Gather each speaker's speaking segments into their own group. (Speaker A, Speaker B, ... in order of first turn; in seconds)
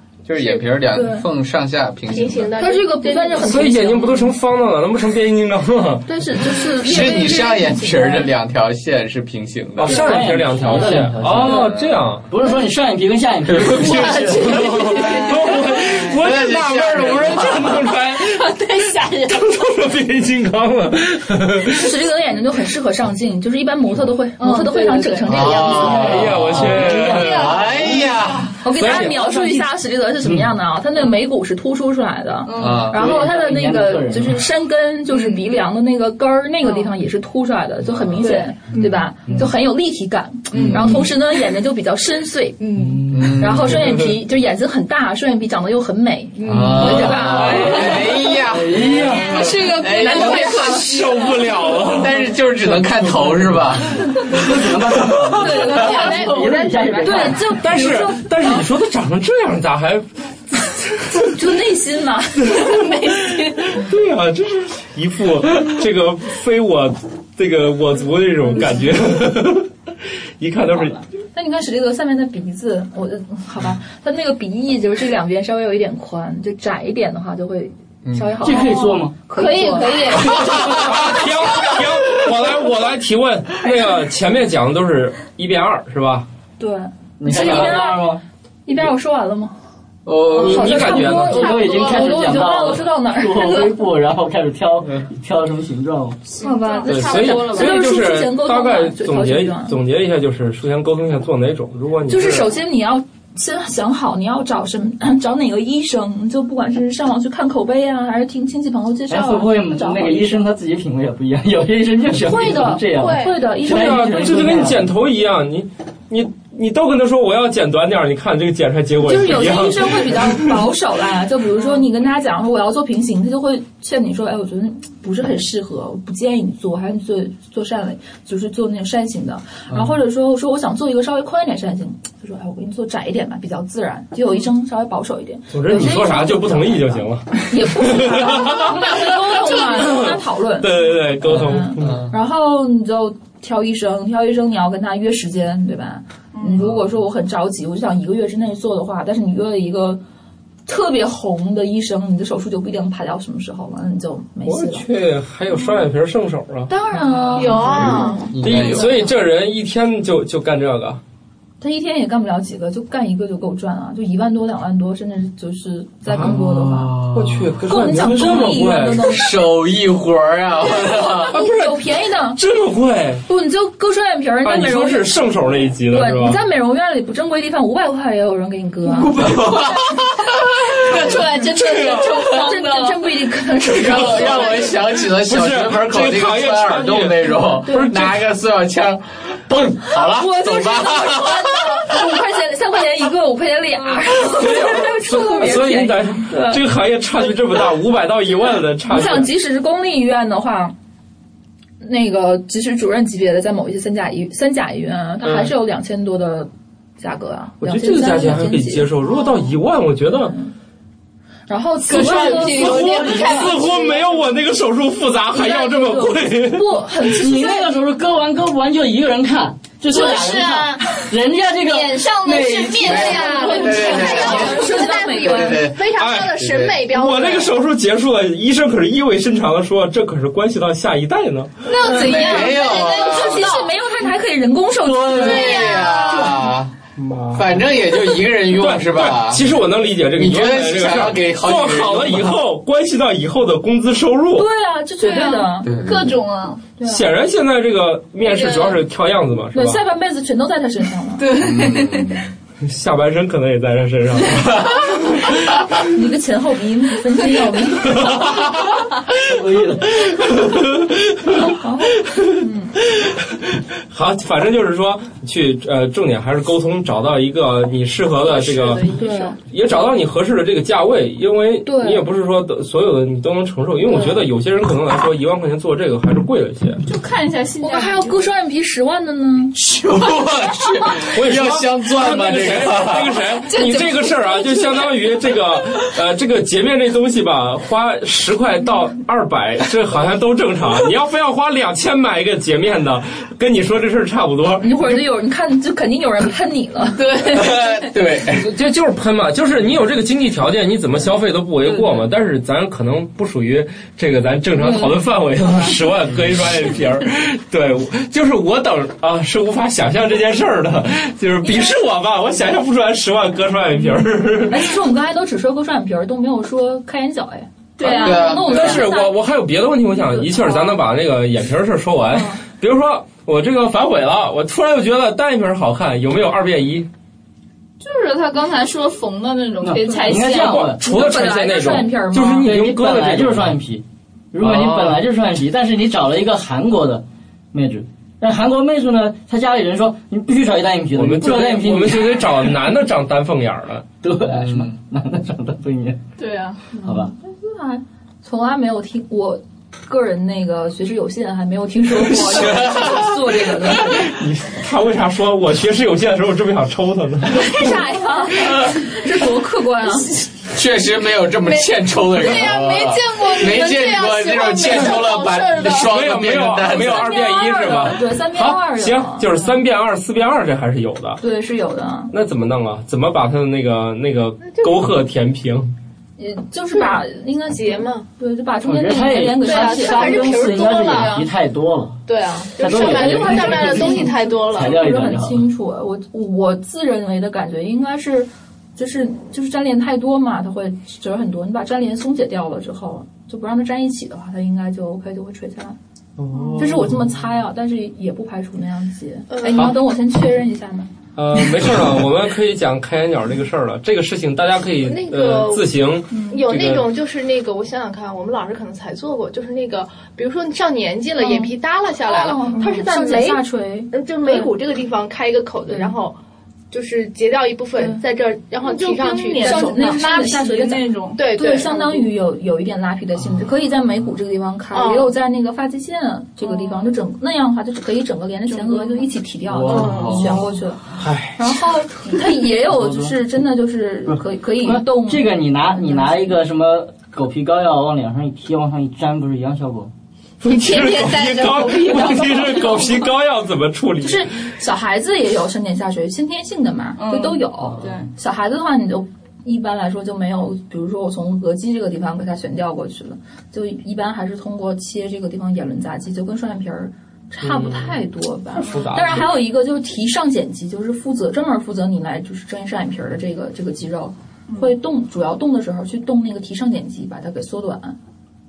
Speaker A: 0.2-2.5, 6.7-10.3, 11.2-12.0, 13.5-14.6, 15.8-17.9, 25.3-28.6, 32.6-33.1, 40.5-41.0, 43.1-43.8, 46.4-56.0, 78.0-78.7, 90.0-91.1, 141.3-142.1, 146.6-146.8, 157.6-159.0, 166.2-171.3, 178.9-181.4, 183.7-192.0, 222.8-226.9, 231.8-233.5, 234.8-236.7, 237.3-239.5, 240.1-242.4, 245.6-246.2, 251.4-252.3, 279.6-283.3, 297.1-298.5, 317.8-318.9, 334.4-334.9, 344.2-344.7, 351.9-353.2, 360.5-367.2, 429.5-430.4
Speaker B: 0.3-0.6, 2.0-3.7, 6.9-7.7, 14.6-15.4, 47.2-47.9, 49.2-51.9, 55.6-57.3, 79.4-80.4, 96.4-97.5, 112.9-113.3, 156.9-158.4, 219.9-220.4, 222.8-227.5, 231.7-233.7, 235.1-236.3, 374.4-374.8, 376.7-378.1, 379.4-381.3, 382.1-384.8, 399.3-399.7, 404.8-416.2, 416.7-420.4, 421.1-422.1, 424.7-425.1
Speaker C: 0.9-1.2, 2.6-4.3, 6.0-8.3, 21.7-26.4, 28.6-42.6, 43.4-48.1, 50.0-50.7, 55.4-58.6, 61.1-62.8, 71.3-80.4, 86.6-89.5, 90.4-93.8, 96.4-99.8, 102.1-110.5, 112.1-114.7, 119.0-150.0, 150.7-154.9, 156.7-159.1, 161.6-167.0, 167.6-169.4, 170.7-172.4, 173.3-175.2, 175.9-179.2, 182.2-184.8, 187.3-188.1, 189.9-196.6, 198.9-200.7, 201.8-209.4, 210.1-210.5, 211.5-213.5, 215.3-217.8, 222.8-225.7, 231.8-235.7, 244.3-245.7, 246.8-247.1, 249.5-251.3, 255.9-258.4, 261.3-262.7, 268.9-269.3, 271.6-272.1, 273.9-274.2, 277.6-279.6, 294.6-297.4, 304.5-305.1, 311.4-311.8, 314.4-319.2, 319.9-320.8, 322.1-322.4, 330.8-332.5, 346.7-354.1, 357.3-360.2, 366.7-369.6, 371.2-372.1, 376.2-381.1, 382.8-395.8, 396.6-400.9, 406.1-406.4, 411.2-411.5, 412.0-414.5, 415.7-415.9, 418.6-430.9, 431.4-436.4, 444.0-468.0
Speaker D: 3.4-6.7, 9.8-12.3, 13.8-18.6, 19.3-21.9, 25.8-27.6, 28.7-29.2, 43.7-44.0, 48.8-52.8, 57.4-61.4, 62.4-69.7, 70.4-71.0, 80.2-86.3, 87.3-87.7, 90.3-91.5, 96.9-102.5, 113.6-120.7, 135.5-142.0, 154.4-156.7, 157.3-157.8, 158.4-161.0, 166.1-166.3, 167.1-169.2, 171.3-173.2, 174.4-176.4, 181.0-182.3, 185.2-188.2, 194.2-199.3, 205.2-205.5, 207.6-210.3, 211.9-216.9, 225.9-231.7, 236.9-237.7, 238.4-244.5, 246.8-249.8, 252.6-255.3, 258.0-258.4, 260.0-261.6, 262.1-262.3, 262.9-276.8, 281.1-294.8, 298.3-314.8, 317.9-326.9, 330.2-333.5, 340.9-343.9, 353.6-357.8, 364.7-365.0, 365.8-371.2, 372.1-375.7, 396.2-397.2, 401.1-406.8, 430.9-431.5, 440.4-444.3, 457.4-458.0, 458.6-459.4
Speaker E: 9.8-11.7, 12.3-14.7, 26.4-27.2, 30.2-30.5, 32.9-34.4, 42.8-43.4, 46.7-49.4, 54.2-57.5, 78.4-79.1, 87.2-88.2, 90.8-96.2, 109.1-114.9, 212.3-213.4, 217.1-223.2, 259.2-260.1, 329.6-330.8, 332.4-342.6, 344.0-346.0, 346.8-347.1, 378.6-382.0, 382.6-385.4, 432.6-433.1, 434.1-439.9
Speaker F: 14.0-15.8, 18.2-19.8, 24.4-25.8, 27.0-28.2, 28.9-29.6, 32.5-32.9, 35.1-35.4, 38.2-38.5, 40.5-40.9, 42.6-43.0, 46.4-48.0, 49.3-51.0, 55.6-57.0, 62.6-63.8, 79.3-80.8, 91.5-92.1, 96.4-97.8, 157.4-158.2, 179.2-179.8, 180.6-183.0, 211.9-213.8, 219.9-220.9, 221.6-225.0, 231.7-233.4, 235.2-236.4, 245.0-246.6, 248.2-248.8, 251.2-252.3, 268.3-269.4, 276.8-278.3, 280.0-280.7, 283.5-285.3, 317.8-318.3, 327.8-330.7, 346.2-346.6, 361.4-365.9, 418.7-421.2, 426.4-426.9, 428.5-429.1, 429.7-430.4, 440.4-443.1, 447.0-448.1